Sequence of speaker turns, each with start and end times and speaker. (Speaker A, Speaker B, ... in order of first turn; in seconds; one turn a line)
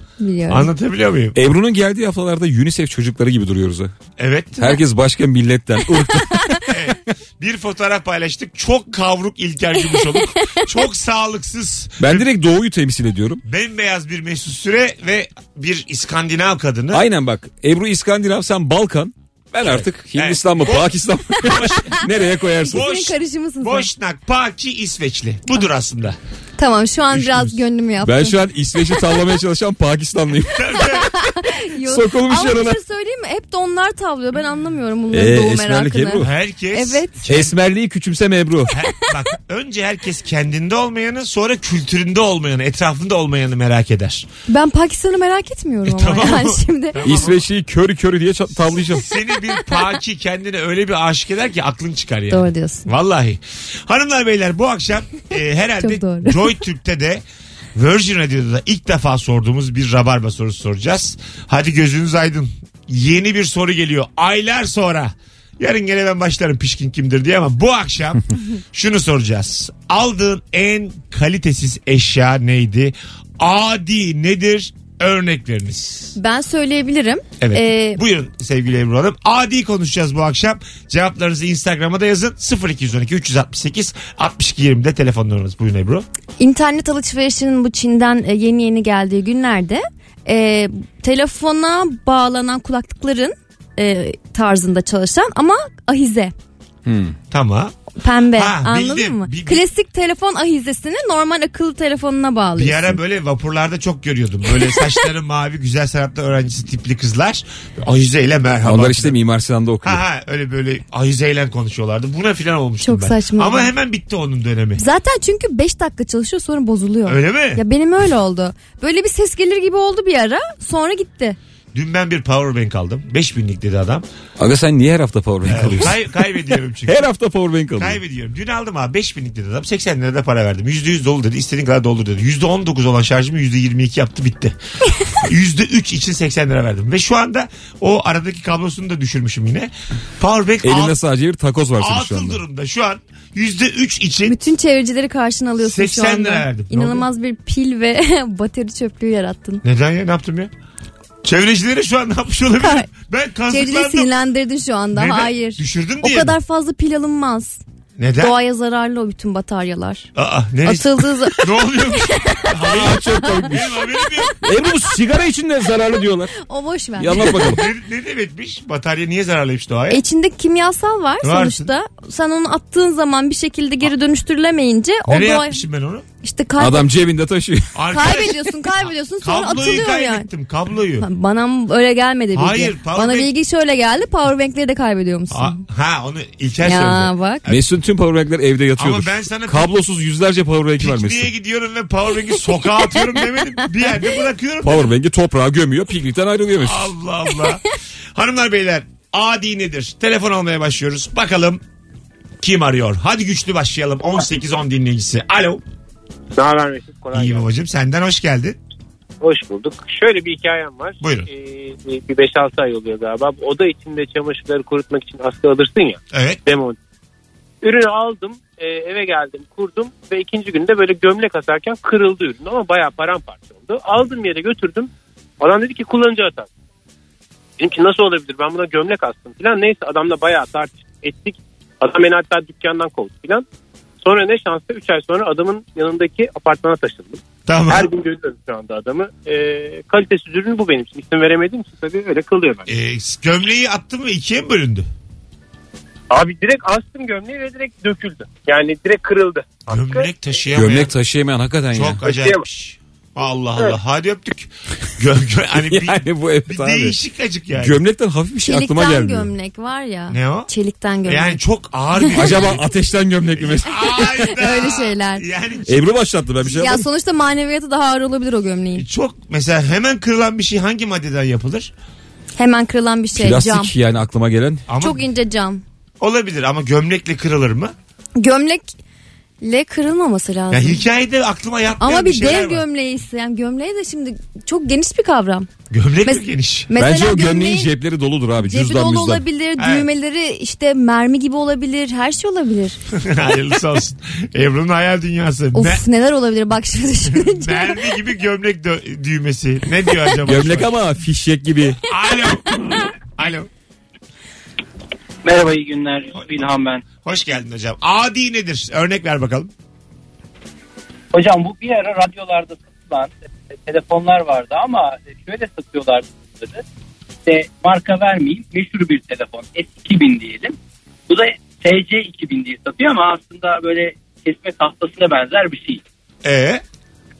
Speaker A: 0.2-0.7
Speaker B: 0.5-1.4
Speaker C: 1.3-3.9
Speaker B: 4.2-4.6
Speaker C: 4.6-6.9
Speaker A: 6.1-6.6
Speaker B: 6.7-12.3
Speaker A: 9.9-10.7
Speaker C: 12.0-13.4
Speaker B: 13.4-17.1
Speaker C: 16.9-22.9
Speaker B: 19.6-22.0
Speaker A: 22.6-23.9
Speaker B: 22.7-26.2
Speaker A: 26.6-28.4
Speaker B: 27.1-27.6
Speaker C: 28.0-30.6
Speaker B: 30.5-31.1
Speaker A: 30.8-37.2
Speaker C: 31.9-32.8
Speaker C: 35.1-36.3
Speaker B: 36.2-37.5
Speaker C: 37.3-38.7
Speaker B: 38.7-44.3
Speaker A: 44.5-47.0
Speaker B: 45.8-47.5
Speaker C: 47.0-49.0
Speaker B: 48.9-57.2
Speaker A: 52.3-52.9
Speaker A: 55.8-56.5
Speaker B: 57.7-76.1
Speaker A: 76.2-78.0
Speaker B: 77.4-86.0
Speaker A: 86.4-96.3
Speaker C: 96.8-97.2
Speaker B: 97.3-97.8
Speaker A: 98.0-103.0
Speaker B: 98.3-99.7
Speaker B: 102.5-109.2
Speaker C: 108.6-110.0
Speaker B: 109.8-114.8
Speaker A: 112.8-113.7
Speaker A: 114.8-121.4
Speaker B: 117.0-117.6
Speaker B: 121.7-124.0
Speaker C: 124.4-126.0
Speaker B: 125.4-127.1
Speaker C: 126.8-128.0
Speaker B: 127.8-134.6
Speaker B: 135.1-141.0
Speaker C: 140.6-142.4
Speaker B: 141.8-144.3
Speaker A: 144.2-149.6
Speaker B: 145.6-147.1
Speaker B: 149.6-150.5
Speaker B: 151.2-154.1
Speaker A: 152.6-152.9
Speaker A: 153.5-157.6
Speaker B: 154.9-156.4
Speaker B: 158.0-158.3
Speaker A: 158.2-160.1
Speaker B: 160.1-164.3
Speaker A: 160.6-162.5
Speaker C: 162.6-163.6
Speaker A: 163.1-164.2
Speaker C: 164.4-166.3
Speaker A: 166.3-167.5
Speaker C: 167.0-167.7
Speaker B: 167.1-170.0
Speaker A: 169.9-175.6
Speaker B: 171.2-171.7
Speaker B: 175.1-176.1
Speaker A: 176.2-176.9
Speaker C: 176.6-177.8
Speaker B: 177.7-181.1
Speaker A: 177.9-180.3
Speaker A: 181.0-185.6
Speaker B: 182.3-183.3
Speaker B: 185.3-187.6
Speaker A: 186.6-187.4
Speaker C: 187.5-191.3
Speaker B: 188.8-189.7
Speaker B: 190.8-194.9
Speaker A: 192.9-193.2
Speaker C: 194.6-196.9
Speaker B: 196.6-201.6
Speaker B: 202.4-205.6
Speaker D: 206.3-207.5
Speaker B: 207.1-208.6
Speaker D: 209.2-216.8
Speaker B: 211.0-211.3
Speaker B: 216.1-216.4
Speaker D: 217.6-226.5
Speaker D: 227.6-233.4
Speaker D: 234.0-242.7
Speaker B: 237.4-237.9
Speaker B: 242.7-244.9
Speaker D: 246.1-250.1
Speaker B: 249.7-250.9
Speaker C: 250.5-252.0
Speaker B: 251.7-257.8
Speaker D: 252.0-252.4
Speaker C: 255.6-257.0
Speaker C: 257.6-259.3
Speaker A: 258.4-261.4
Speaker B: 260.1-260.5
Speaker B: 261.1-262.6
Speaker A: 261.9-262.4
Speaker C: 262.1-264.1
Speaker B: 263.4-265.8
Speaker A: 263.9-265.2
Speaker C: 265.6-266.8
Speaker A: 266.4-268.9
Speaker B: 268.7-271.7
Speaker A: 272.4-273.7
Speaker C: 273.1-274.6
Speaker B: 274.7-275.0
Speaker A: 274.8-275.6
Speaker B: 276.0-277.7
Speaker A: 278.2-278.7
Speaker A: 279.4-280.8
Speaker B: 280.5-282.6
Speaker A: 281.8-285.5
Speaker B: 285.7-286.7
Speaker A: 286.1-287.7
Speaker C: 286.7-289.2
Speaker A: 288.4-292.8
Speaker B: 289.6-289.9
Speaker B: 292.9-295.8
Speaker A: 295.5-297.8
Speaker B: 297.1-300.7
Speaker C: 300.2-301.8
Speaker B: 301.8-303.5
Speaker E: 305.2-306.8
Speaker B: 307.0-309.5
Speaker E: 311.1-316.6
Speaker E: 317.2-320.6
Speaker E: 321.1-325.8
Speaker B: 326.2-326.6